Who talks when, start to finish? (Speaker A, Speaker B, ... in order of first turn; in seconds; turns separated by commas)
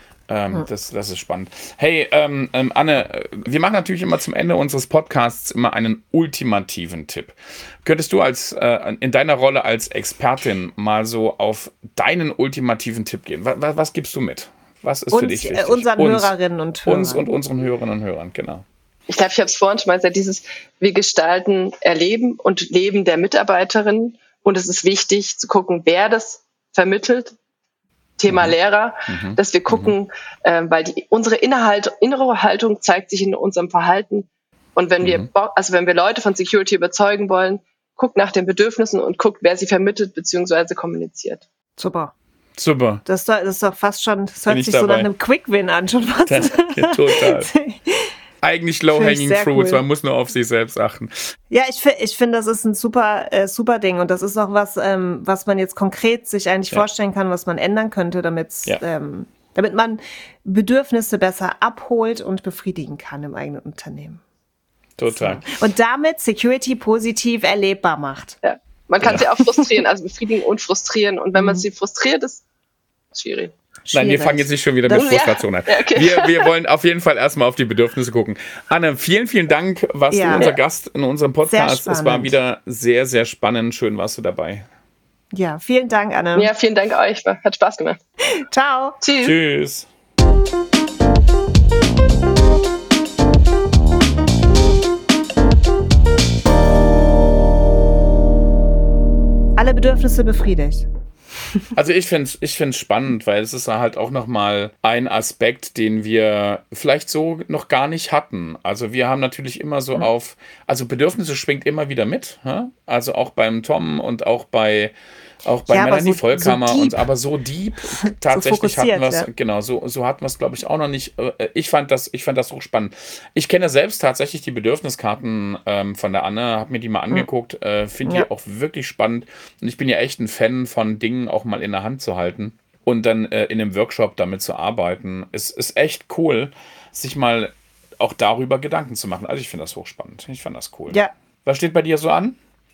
Speaker A: 0.3-16.3, Speaker B: 15.1-17.2, Speaker A: 16.9-18.6, Speaker C: 19.1-27.3, Speaker C: 28.2-41.4, Speaker A: 28.3-28.6, Speaker A: 29.1-29.9, Speaker A: 35.0-35.3, Speaker B: 41.8-42.1, Speaker A: 42.6-43.0, Speaker B: 43.0-48.1, Speaker A: 44.5-45.1, Speaker A: 46.3-47.5, Speaker A: 48.4-51.1, Speaker B: 48.9-49.8, Speaker B: 51.5-64.2, Speaker A: 65.0-65.5, Speaker B: 65.1-68.4, Speaker C: 68.4-72.4, Speaker B: 71.4-71.7, Speaker C: 73.1-73.5, Speaker B: 73.9-74.5, Speaker A: 73.9-84.7, Speaker C: 74.9-76.5, Speaker B: 80.1-80.5, Speaker C: 80.3-80.6, Speaker B: 81.4-82.3, Speaker B: 85.3-86.5, Speaker C: 86.3-88.0, Speaker B: 88.4-89.0, Speaker C: 89.0-89.4, Speaker A: 89.2-89.9, Speaker B: 99.6-100.9, Speaker A: 101.7-114.9, Speaker A: 115.5-142.4, Speaker B: 115.7-117.0, Speaker B: 118.0-119.3